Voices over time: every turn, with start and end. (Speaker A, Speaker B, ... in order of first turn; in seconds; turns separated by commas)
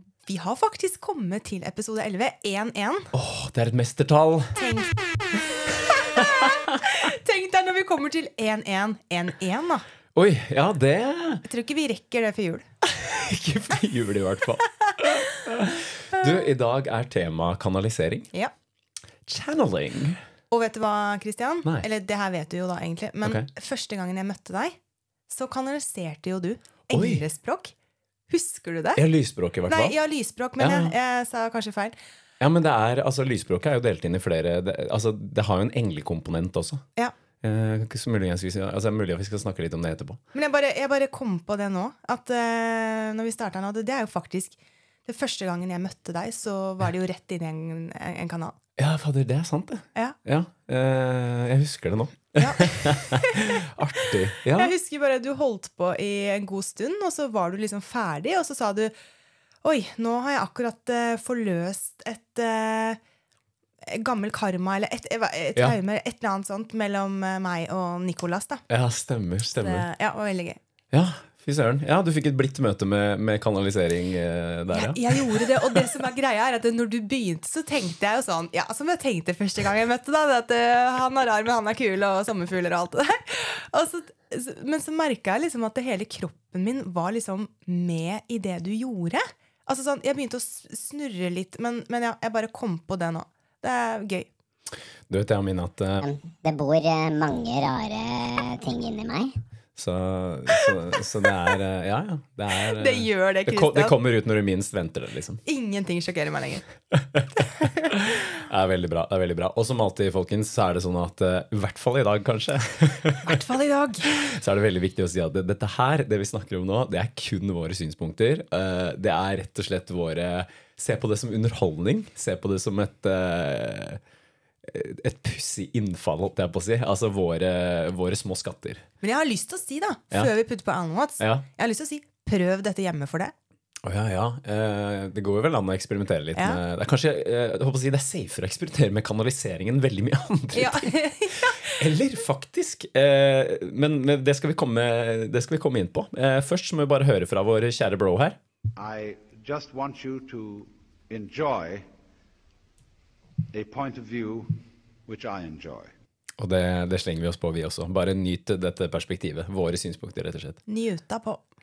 Speaker A: 0.3-3.1, Speaker B: 3.1-4.6, Speaker A: 4.6-5.0, Speaker A: 5.7-9.8, Speaker B: 6.2-6.8, Speaker B: 10.2-11.4, Speaker A: 11.4-12.7, Speaker B: 13.0-18.3, Speaker A: 14.9-15.3, Speaker B: 19.3-20.2, Speaker A: 20.5-24.8, Speaker A: 25.3-27.7, Speaker B: 26.9-27.2, Speaker A: 28.3-29.0, Speaker B: 29.0-29.9, Speaker A: 29.7-32.0, Speaker B: 30.6-30.9, Speaker B: 32.4-36.8, Speaker B: 37.4-40.2, Speaker A: 40.3-48.6, Speaker B: 48.8-54.7, Speaker A: 52.4-58.9, Speaker A: 59.6-63.0, Speaker A: 63.8-68.6, Speaker B: 68.7-69.9, Speaker A: 69.6-70.6, Speaker B: 70.9-75.9, Speaker A: 74.7-94.3, Speaker B: 95.1-96.0, Speaker C: 96.0-99.3, Speaker B: 99.8-105.4, Speaker A: 102.7-104.0, Speaker A: 105.5-106.7, Speaker B: 106.9-113.4, Speaker A: 107.6-108.0, Speaker A: 113.2-114.3, Speaker B: 114.1-124.0, Speaker B: 124.7-128.8, Speaker A: 129.0-133.3, Speaker B: 131.2-131.4, Speaker B: 133.8-148.4, Speaker A: 136.3-136.6, Speaker A: 140.5-141.9, Speaker D: 148.8-151.9, Speaker D: 153.5-155.9, Speaker B: 156.4-160.6, Speaker A: 160.7-161.4